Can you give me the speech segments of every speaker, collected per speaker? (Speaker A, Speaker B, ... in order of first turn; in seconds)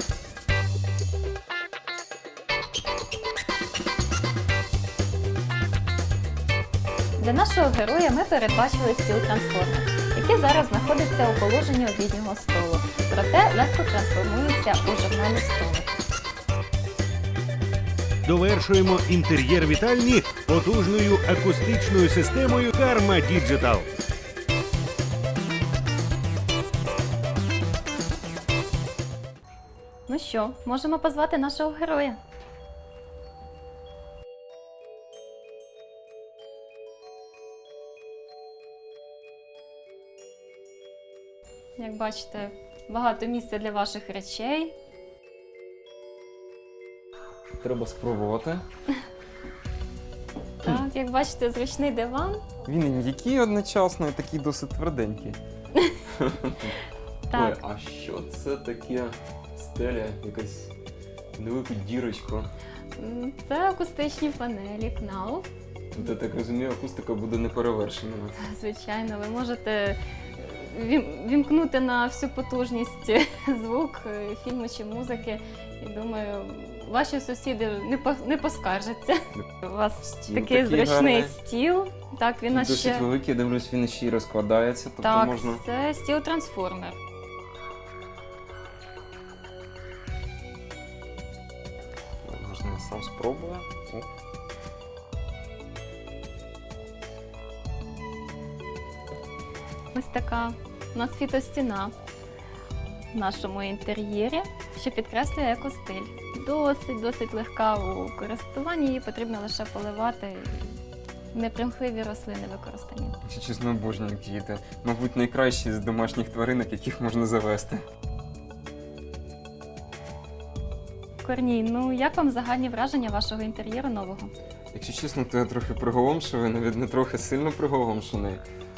Speaker A: 7.2-15.9, 30.1-32.2, 41.8-44.7, 50.6-52.5, 57.3-57.6, 63.0-65.5, 68.4-83.1, 85.0-87.0, 99.9-101.9, 103.1-110.7, 111.3-113.2, 121.2-124.3
Speaker B: 18.2-23.9
Speaker C: 47.6-48.6, 52.7-55.4, 56.1-56.8, 57.3-60.7, 61.4-62.5, 65.9-68.4, 80.0-81.3, 82.5-85.6, 92.2-94.1, 113.2-117.8, 124.7-128.4